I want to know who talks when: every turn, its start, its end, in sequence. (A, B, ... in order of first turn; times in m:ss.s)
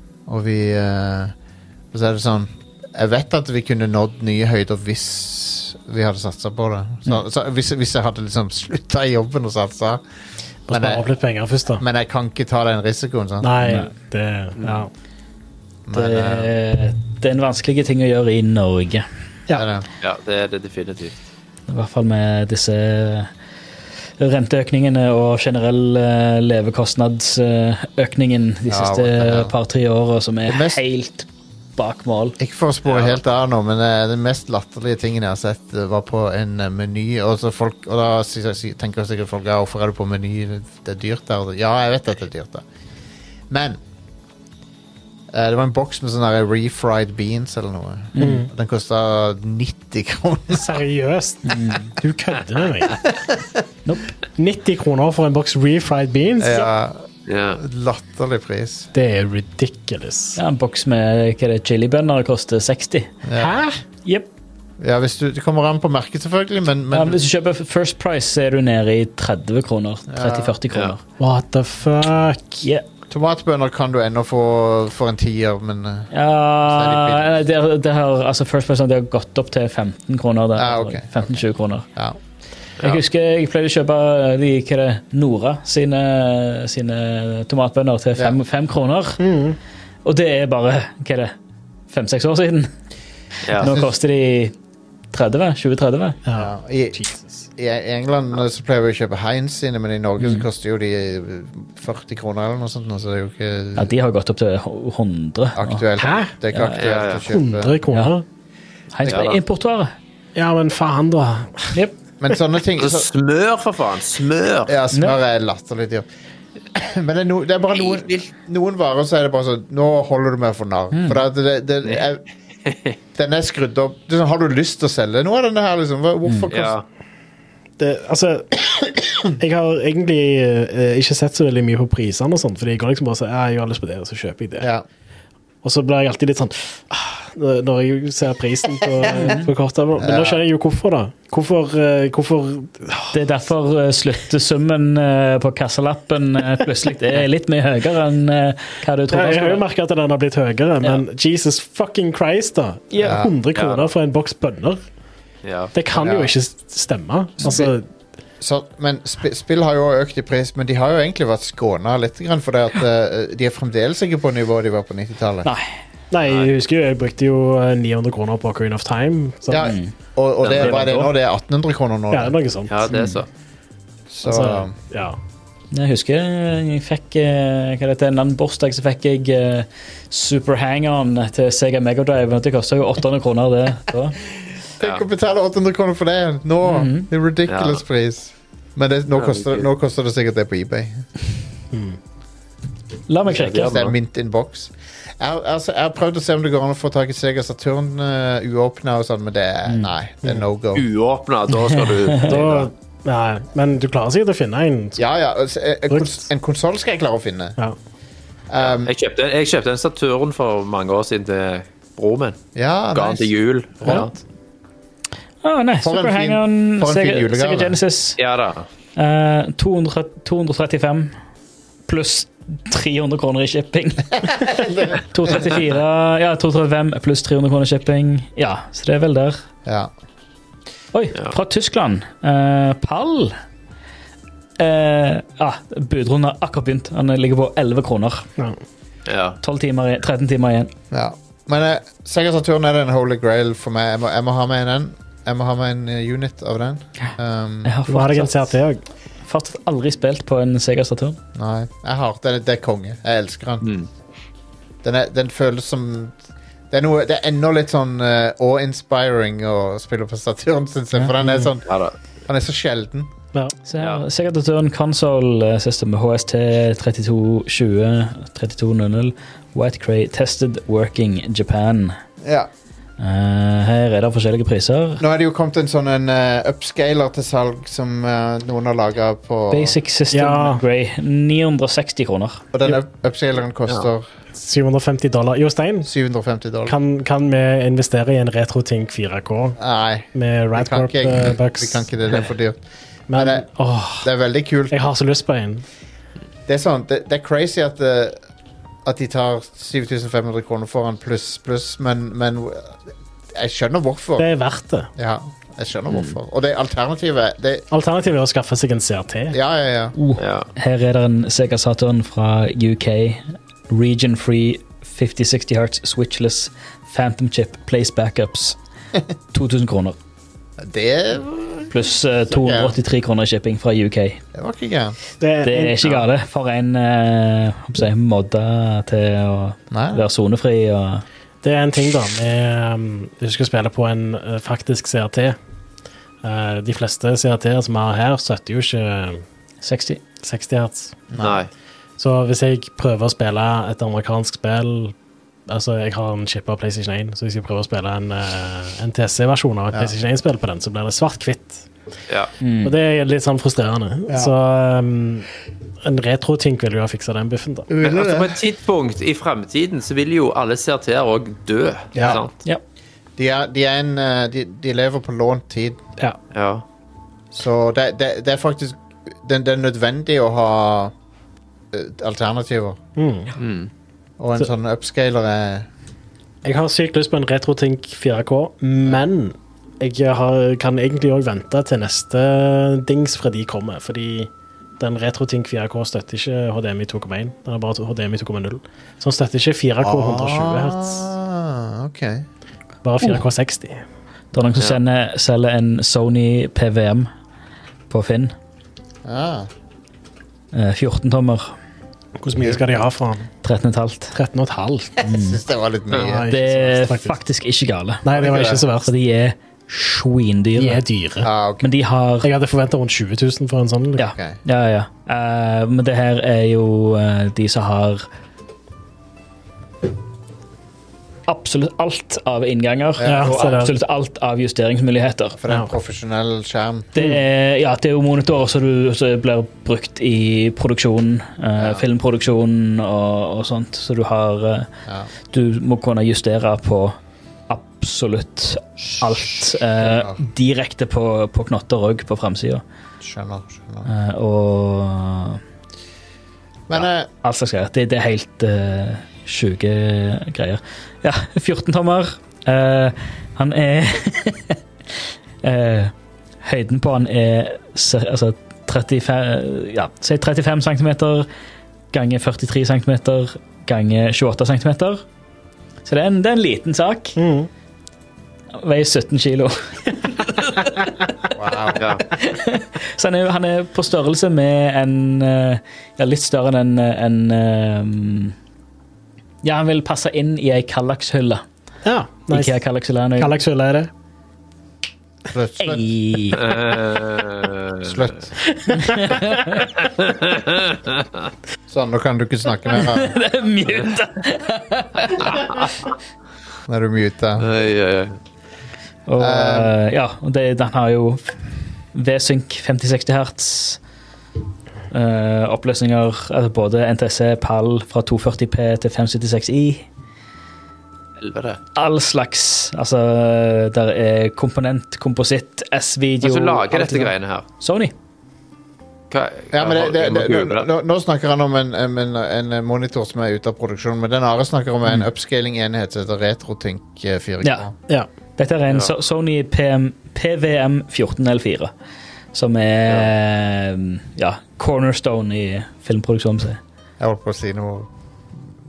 0:00.3-0:01.3 A
0:01.9-0:10.0 A
0:10.7-0:11.8 B
0:10.7-0:11.1 A
0:11.8-0:13.5 A
0:13.4-0:14.9 B
0:13.6-0:13.9 C
0:15.9-0:16.6 A
0:15.9-0:19.1 C
0:19.5-0:19.9 A
0:20.0-0:21.2 D
0:21.7-0:23.3 C
0:24.2-0:32.4 C
0:28.7-0:29.5 A
0:30.5-0:30.8 A
0:32.4-0:42.6 A
0:32.8-0:33.2 D
0:43.5-0:43.8 A
0:45.3-0:50.8 A
0:48.2-0:48.4 C
0:48.2-0:48.5 B
0:50.5-0:53.0 B
0:51.5-0:51.9 C
0:52.9-0:53.4 A
0:53.8-0:54.2 C
0:54.4-0:56.7 B
0:56.4-0:58.9 A
0:57.3-0:57.6 D
0:58.9-1:00.4 B
1:00.4-1:03.1 C
1:03.2-1:03.6 A
1:03.4-1:03.8 B
1:04.8-1:07.2 A
1:06.9-1:11.0 C
1:10.1-1:10.6 A
1:10.7-1:11.0 D
1:11.2-1:12.6 B
1:13.1-1:16.1 A
1:16.1-1:21.8 C
1:16.6-1:17.3 A
1:20.6-1:22.2 A
1:22.8-1:29.2 C
1:29.2-1:29.6 B
1:30.0-1:31.3 C
1:31.9-1:32.7 C
1:33.4-1:33.7 D
1:33.5-1:34.6 C
1:33.6-1:34.0 A
1:35.1-1:36.2 C
1:36.3-1:37.5 B
1:36.3-1:37.0 A
1:37.6-1:43.9 A
1:40.2-1:40.4 C
1:43.8-1:45.9 C
1:45.6-1:47.8 A
1:46.0-1:46.3 B
1:46.5-1:46.8 C
1:46.8-1:47.2 D
1:47.3-1:48.2 B
1:48.9-1:49.9 C
1:49.0-1:49.4 D
1:50.4-1:51.8 B
1:52.2-1:53.1 A
1:52.8-1:54.8 D
1:54.7-1:56.1 A
1:54.9-1:55.2 C
1:56.7-2:02.2 A
1:57.8-1:58.2 D
2:00.9-2:01.2 C
2:02.7-2:03.0 D
2:03.2-2:06.8 A
2:06.5-2:06.8 D
2:07.8-2:08.6 B
2:09.4-2:14.7 B
2:14.6-2:14.8 A
2:15.6-2:23.2 B
2:19.1-2:19.5 C
2:20.0-2:20.4 A
2:23.1-2:29.6 C
2:29.1-2:34.8 B
2:32.9-2:33.2 C
2:33.0-2:33.3 A
2:33.6-2:33.9 D
2:35.4-2:35.7 D
2:35.7-2:37.9 B
2:36.0-2:36.3 A
2:38.4-2:45.5 A
2:45.4-2:45.7 C
2:46.1-2:49.7 B
2:49.5-2:52.4 A
2:49.6-2:49.9 C
2:50.4-2:50.8 D
2:50.5-2:51.1 C
2:52.1-2:52.9 B
2:52.7-2:53.3 D
2:52.9-2:53.2 C
2:54.1-2:54.7 A
2:54.2-2:55.2 B
2:55.7-3:04.2 C
3:04.8-3:11.1 A
3:06.6-3:07.1 C
3:07.5-3:07.8 D
3:09.2-3:09.7 D
3:11.7-3:12.0 B
3:13.1-3:13.8 C
3:13.3-3:13.9 D
3:13.3-3:20.8 A
3:20.7-3:22.7 D
3:21.5-3:22.4 C
3:22.2-3:25.0 B
3:25.0-3:27.6 A
3:25.9-3:26.2 B
3:28.5-3:28.9 A
3:28.6-3:32.4 D
3:32.6-3:34.1 A
3:32.9-3:34.2 D
3:35.4-3:38.2 C
3:35.8-3:37.8 A
3:38.2-3:38.7 D
3:39.0-3:41.1 C
3:41.9-3:49.4 C
3:44.4-3:45.4 A
3:49.7-3:49.9 A
3:50.9-3:53.4 C
3:54.6-3:58.3 C
3:59.1-3:59.4 D
3:59.4-4:00.7 C
4:00.9-4:07.8 A
4:07.6-4:08.5 C
4:07.9-4:08.8 B
4:09.3-4:11.2 C
4:11.4-4:13.7 A
4:13.6-4:13.9 D
4:14.8-4:16.2 A
4:16.7-4:21.7 A
4:21.2-4:21.5 B
4:21.7-4:22.0 D
4:22.3-4:23.1 A
4:23.7-4:32.0 C
4:23.8-4:24.0 D
4:32.2-4:32.5 A
4:33.0-4:35.0 C
4:35.0-4:39.8 A
4:39.5-4:42.4 C
4:40.1-4:40.6 B
4:42.5-4:44.1 A
4:44.3-4:45.9 B
4:45.8-4:46.8 A
4:46.7-4:49.6 B
4:49.6-4:52.6 A
4:50.1-4:51.9 B
4:53.1-4:54.1 B
4:53.1-4:53.5 A
4:54.0-4:54.8 A
4:54.7-4:55.6 B
4:56.5-4:58.2 A
4:58.8-5:02.8 A
5:03.3-5:04.3 A
5:04.2-5:04.9 B
5:05.0-5:07.7 A
5:07.7-5:09.4 B
5:09.3-5:10.0 A
5:10.0-5:18.6 C
5:10.2-5:10.5 D
5:19.3-5:20.0 C
5:20.6-5:22.8 A
5:21.7-5:24.2 C
5:24.3-5:25.0 A
5:25.2-5:25.8 B
5:25.4-5:31.0 C
5:29.7-5:30.1 A
5:31.4-5:35.4 B
5:36.2-5:39.2 B
5:39.6-5:40.0 C
5:40.2-5:41.0 B
5:41.1-5:41.5 A
5:41.2-5:41.5 D
5:42.0-5:44.9 B
5:45.5-5:51.7 B
5:52.4-5:52.8 C
5:52.6-5:55.3 B
5:54.1-5:54.3 A
5:55.8-5:57.7 B
5:57.7-5:58.4 A
5:57.8-6:02.4 D
6:02.0-6:02.3 A
6:03.2-6:05.8 A
6:06.3-6:06.6 D
6:07.3-6:10.9 A
6:11.7-6:12.8 A
6:13.0-6:13.3 B
6:13.4-6:13.7 D
6:14.2-6:15.7 A
6:16.4-6:31.0 B
6:29.8-6:32.3 A
6:32.8-6:33.8 B
6:34.3-6:37.1 C
6:37.9-6:38.4 C
6:39.0-6:39.5 A
6:40.5-6:41.5 C
6:42.2-6:43.3 B
6:42.4-6:42.7 A
6:43.4-6:44.2 C
6:44.1-6:45.0 B
6:45.0-6:46.3 A
6:45.0-6:45.4 C
6:45.9-6:47.2 B
6:46.3-6:48.0 C
6:48.0-6:48.9 B
6:48.2-6:48.6 A
6:48.9-6:50.8 C
6:50.6-6:51.3 B
6:51.2-6:51.7 A
6:51.6-6:52.3 C
6:52.2-6:54.0 B
6:54.0-6:58.1 C
6:54.0-6:54.4 A
7:01.3-7:05.4 C
7:03.0-7:03.6 A
7:03.0-7:03.7 B
7:05.4-7:07.0 A
7:07.0-7:14.7 C
7:11.6-7:11.9 A
7:14.9-7:15.1 A
7:15.3-7:17.0 C
7:17.5-7:22.6 C
7:19.0-7:20.2 A
7:23.0-7:23.9 A
7:23.9-7:25.4 C
7:26.7-7:27.1 A
7:27.2-7:34.6 C
7:35.4-7:41.3 C
7:41.9-7:45.0 C
7:45.8-7:47.2 C
7:47.2-7:47.5 B
7:48.6-7:58.4 C
7:51.4-7:52.0 A
7:51.8-7:52.0 D
7:59.4-8:01.4 C
8:01.8-8:02.6 B
8:02.3-8:03.4 C
8:03.2-8:03.9 B
8:05.3-8:05.9 A
8:05.6-8:06.5 C
8:06.4-8:08.1 D
8:07.8-8:08.3 A
8:08.6-8:09.6 B
8:08.8-8:09.6 C
8:10.0-8:11.1 D
8:11.7-8:13.2 A
8:12.7-8:15.7 C
8:15.2-8:15.8 D
8:16.7-8:17.5 A
8:17.4-8:18.2 D
8:19.1-8:21.4 C
8:19.2-8:19.7 A
8:21.9-8:23.8 C
8:24.9-8:29.9 C
8:31.2-8:31.6 D
8:31.8-8:37.9 C
8:36.2-8:37.5 D
8:39.1-8:40.7 D
8:39.5-8:47.7 A
8:47.4-8:47.7 C
8:48.4-8:51.7 C
8:52.3-8:56.6 C
8:57.0-8:58.4 A